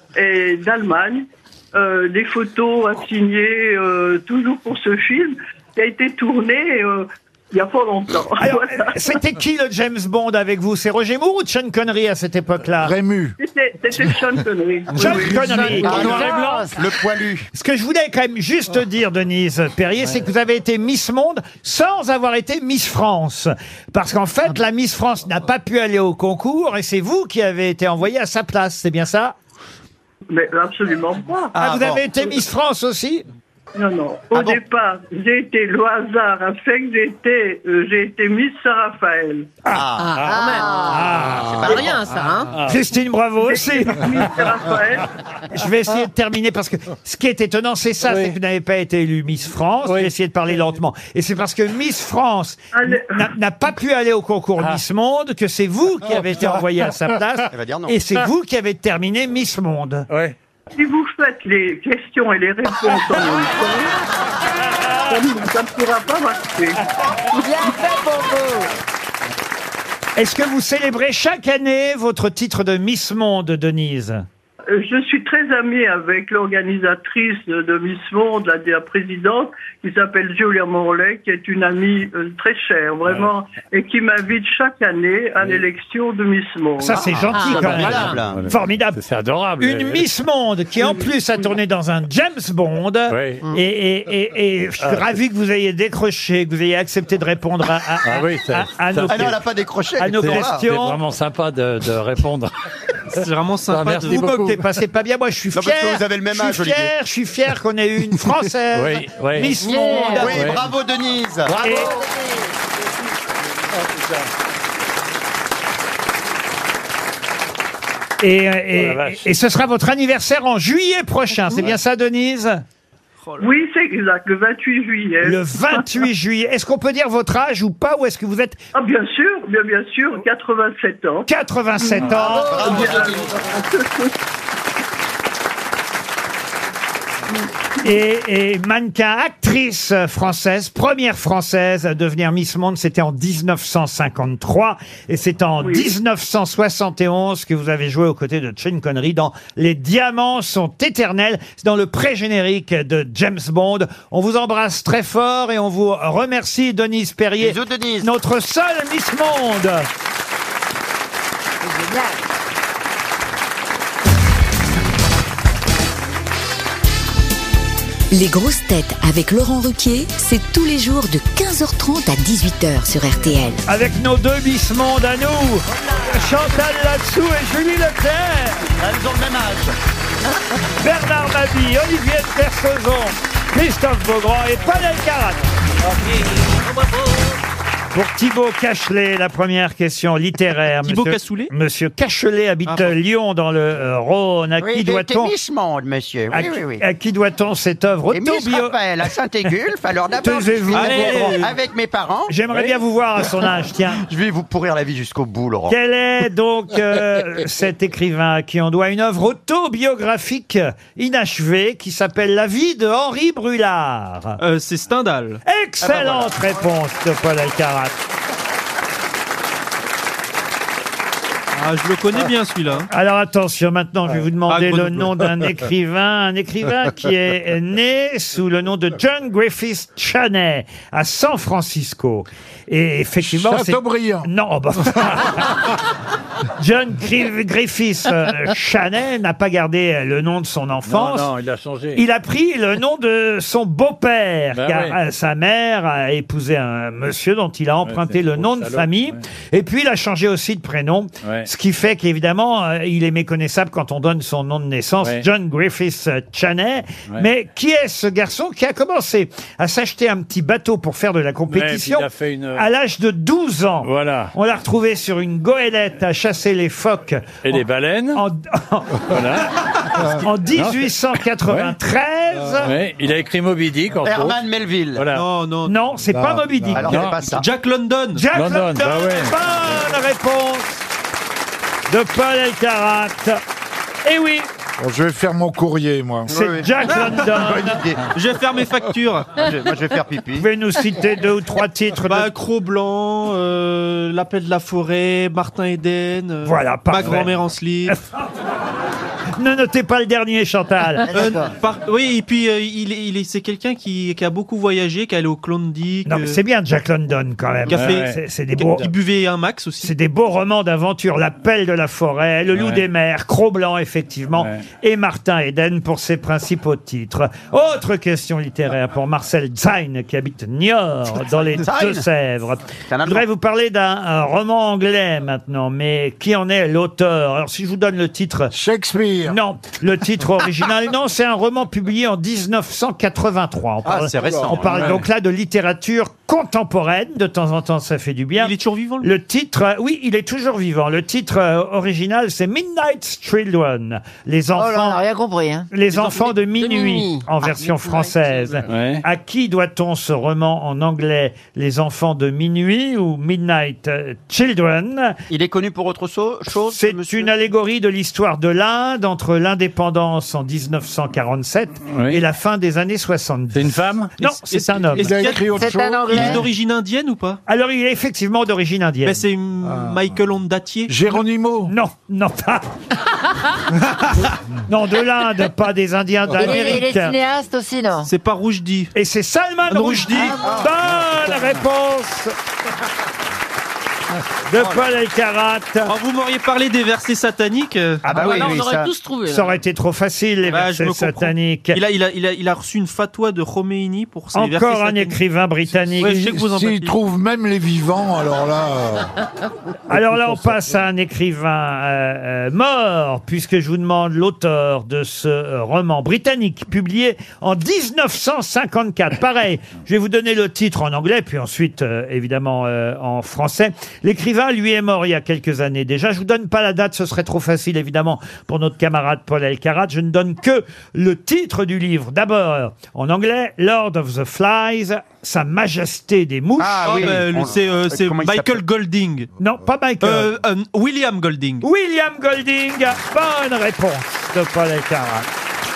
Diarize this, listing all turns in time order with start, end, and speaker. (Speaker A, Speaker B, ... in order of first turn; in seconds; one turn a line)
Speaker A: 0.1-8.9
Speaker B: 8.4-12.9
Speaker C: 12.8-13.3
Speaker A: 13.4-15.2
Speaker B: 14.9-16.4
Speaker D: 15.0-16.6
Speaker E: 15.0-17.5
Speaker F: 15.4-16.8
Speaker B: 17.5-29.3
Speaker A: 30.3-31.5
Speaker E: 31.5-32.0
Speaker B: 31.6-33.2
Speaker A: 33.8-39.5
Speaker E: 39.7-40.2
Speaker G: 40.0-40.9
Speaker D: 40.2-40.4
Speaker F: 40.2-41.8
Speaker B: 40.8-41.7
Speaker G: 41.6-42.5
Speaker E: 41.6-42.0
Speaker D: 42.5-42.8
Speaker B: 42.6-44.2
Speaker A: 43.4-45.1
Speaker B: 45.5-60.1
Speaker D: 48.0-48.4
Speaker D: 49.9-50.1
Speaker A: 52.7-53.3
Speaker E: 57.5-58.0
Speaker D: 60.1-60.3
Speaker A: 60.7-63.9
Speaker A: 65.1-66.8
Speaker F: 67.3-68.7
Speaker B: 70.2-74.2
Speaker A: 74.7-87.1
Speaker B: 86.8-89.0
Speaker G: 87.3-88.2
Speaker D: 87.5-90.1
Speaker E: 87.6-88.4
Speaker B: 89.6-99.4
Speaker D: 93.1-93.5
Speaker D: 94.8-95.1
Speaker D: 98.0-99.3
Speaker E: 99.1-100.6
Speaker B: 100.0-101.0
Speaker D: 100.1-102.5
Speaker H: 103.1-104.2
Speaker D: 103.2-104.6
Speaker B: 104.0-110.5
Speaker E: 105.5-106.9
Speaker D: 108.7-109.6
Speaker F: 109.6-110.5
Speaker G: 109.7-110.2
Speaker E: 110.1-111.6
Speaker D: 110.2-110.6
Speaker D: 111.5-111.9
Speaker F: 111.6-112.5
Speaker B: 111.6-111.9
Speaker D: 113.8-114.2
Speaker B: 118.2-122.6
Speaker D: 118.7-119.3
Speaker H: 123.2-123.5
Speaker A: 123.4-125.9
Speaker B: 125.2-128.6
Speaker A: 128.7-131.3
Speaker B: 131.3-132.9
Speaker A: 131.8-134.1
Speaker E: 132.2-133.3
Speaker B: 137.8-159.9
Speaker A: 145.6-145.9
Speaker E: 157.4-158.1
Speaker F: 161.6-162.2
Speaker I: 168.1-173.6
Speaker B: 173.7-178.7
Speaker E: 178.8-179.7
Speaker B: 180.8-185.4
Speaker B: 187.9-195.3
Speaker H: 190.8-191.5
Speaker H: 192.7-192.9
Speaker E: 194.6-196.8
Speaker B: 196.3-198.8
Speaker E: 198.1-202.3
Speaker B: 200.2-201.4
Speaker H: 200.7-201.5
Speaker B: 202.3-204.0
Speaker D: 202.5-202.8
Speaker E: 204.0-205.8
Speaker B: 205.7-214.4
Speaker H: 214.4-215.4
Speaker B: 215.4-217.9
Speaker E: 215.8-216.3
Speaker H: 221.5-222.9
Speaker B: 222.9-235.6
Speaker H: 224.5-225.2
Speaker C: 233.2-234.3
Speaker B: 236.6-241.3
Speaker D: 240.8-242.0
Speaker B: 241.9-267.6
Speaker D: 244.5-245.0
Speaker D: 247.9-249.2
Speaker D: 251.2-251.5
Speaker D: 255.0-255.2
Speaker D: 261.5-262.6
Speaker D: 263.8-264.3
Speaker D: 267.4-268.2
Speaker B: 268.1-269.1
Speaker D: 269.1-270.9
Speaker B: 270.2-272.7
Speaker D: 271.4-271.7
Speaker D: 272.6-274.4
Speaker E: 274.0-275.1
Speaker D: 274.9-275.2
Speaker H: 275.1-275.7
Speaker B: 275.6-277.1
Speaker C: 276.1-277.0
Speaker E: 276.7-277.4
Speaker D: 276.8-277.2
Speaker H: 277.2-278.2
Speaker B: 278.1-280.8
Speaker D: 278.3-279.3
Speaker B: 281.9-283.4
Speaker B: 284.0-284.5
Speaker C: 284.8-286.3
Speaker B: 286.3-287.8
Speaker E: 286.3-288.1
Speaker H: 288.1-289.4
Speaker E: 289.4-290.5
Speaker B: 290.4-292.3
Speaker H: 292.1-298.0
Speaker B: 296.4-297.3
Speaker B: 299.4-301.1
Speaker H: 301.1-306.4
Speaker F: 301.1-301.5
Speaker B: 306.1-308.9
Speaker H: 307.7-309.9
Speaker D: 307.7-308.2
Speaker B: 309.8-328.5
Speaker D: 312.5-312.8
Speaker D: 314.4-314.6
Speaker E: 321.5-322.0
Speaker E: 322.9-323.2
Speaker C: 328.5-329.4
Speaker B: 329.2-345.0
Speaker E: 333.8-334.8
Speaker C: 334.2-334.6
Speaker D: 334.6-335.0
Speaker H: 338.4-339.1
Speaker F: 344.5-345.7
Speaker B: 345.7-355.2
Speaker G: 345.9-348.6
Speaker D: 348.7-349.0
Speaker E: 355.3-357.3
Speaker B: 356.7-365.1
Speaker D: 361.9-362.2
Speaker D: 363.5-364.1
Speaker H: 364.2-365.5
Speaker C: 364.9-366.4
Speaker F: 365.4-366.4
Speaker H: 366.1-367.4
Speaker B: 367.5-369.2
Speaker H: 369.0-371.1
Speaker C: 369.6-370.0
Speaker C: 370.9-371.7
Speaker B: 371.7-372.7
Speaker B: 374.6-377.1
Speaker F: 376.4-378.1
Speaker H: 378.0-378.9
Speaker B: 378.9-382.3
Speaker H: 379.7-380.4
Speaker F: 380.1-380.6
Speaker E: 380.4-380.7
Speaker B: 384.5-385.9
Speaker H: 385.9-388.0
Speaker B: 388.0-388.6
Speaker E: 388.1-388.9
Speaker G: 388.1-389.6
Speaker B: 389.2-391.8
Speaker H: 390.5-395.2
Speaker B: 394.3-396.2
Speaker H: 396.0-397.0
Speaker C: 396.0-399.1
Speaker B: 399.9-427.2
Speaker E: 426.6-428.6
Speaker H: 426.8-429.3
Speaker B: 429.4-430.3
Speaker H: 430.0-431.6
Speaker B: 431.6-435.3